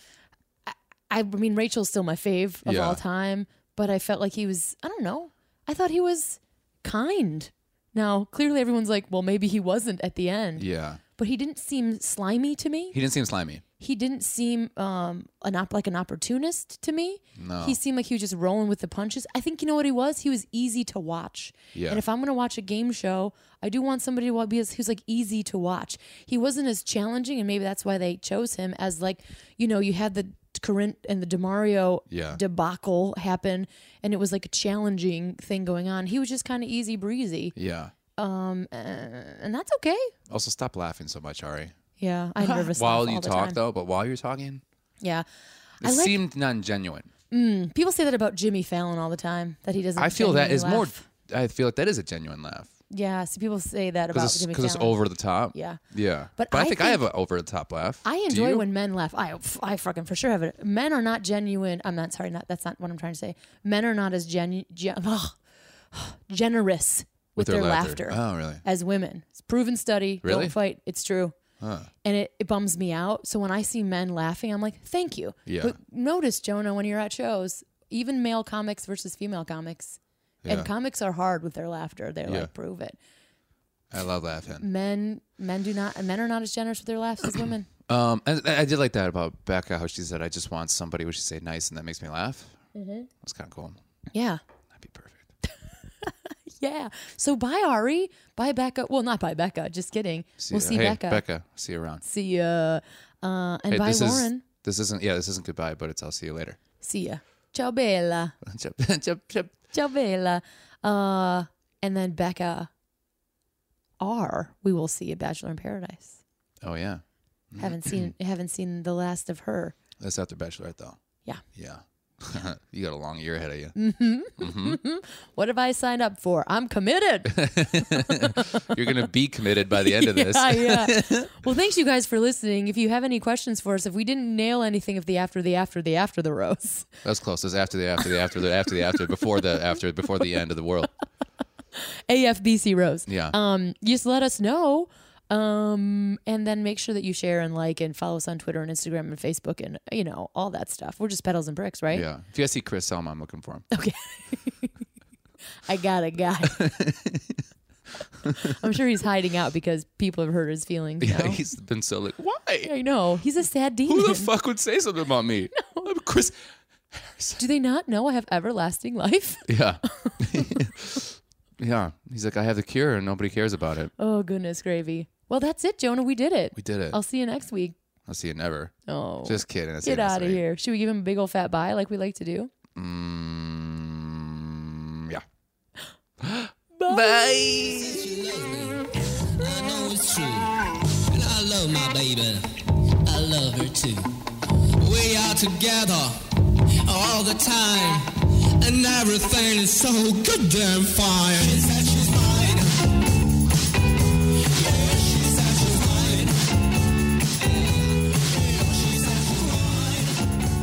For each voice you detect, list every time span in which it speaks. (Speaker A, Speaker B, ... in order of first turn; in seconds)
Speaker A: 0.7-10.7, 11.2-13.0, 13.8-37.5, 38.2-40.1, 42.0-43.6, 45.8-46.2, 47.3-51.1, 52.9-55.8, 56.4-57.0, 58.0-65.4, 65.9-71.4, 72.0-83.0, 84.6-87.7, 92.8-93.1, 94.1-94.4, 95.5-101.2, 102.0-104.4, 106.8-108.3, 109.7-112.7, 114.0-116.2, 117.6-119.8, 123.8-128.7, 129.8-136.9, 141.8-152.0, 153.7-154.8, 155.7-156.7, 158.3-161.4, 162.6-164.3, 167.4-170.6, 174.0-177.8, 178.9-182.5, 186.8-187.4
Speaker B: 2.6-3.0, 10.6-11.0, 12.9-13.6, 17.4-17.8, 21.7-22.0, 32.1-32.4, 37.6-37.9, 40.3-41.7, 42.4-44.6, 45.8-47.1, 50.0-52.7, 54.1-58.6, 67.4-68.6, 70.2-70.5, 71.6-71.9, 75.5-75.8, 80.4-80.7, 82.2-82.5, 83.9-84.7, 87.4-92.6, 93.2-93.8, 94.7-95.3, 100.4-102.0, 103.7-106.6, 108.4-109.6, 116.6-118.1, 120.0-121.0, 121.5-123.8, 124.4-124.8, 127.3-131.4, 137.0-140.9, 143.1-143.3, 151.9-153.7, 156.4-157.4, 158.2-158.6, 161.0-162.7, 163.9-166.3, 166.9-167.4, 169.5-173.9, 176.6-177.0, 178.1-178.7, 179.2-180.4, 182.8-185.2, 186.2-188.2
Speaker C: 187.6-202.9, 204.2-210.4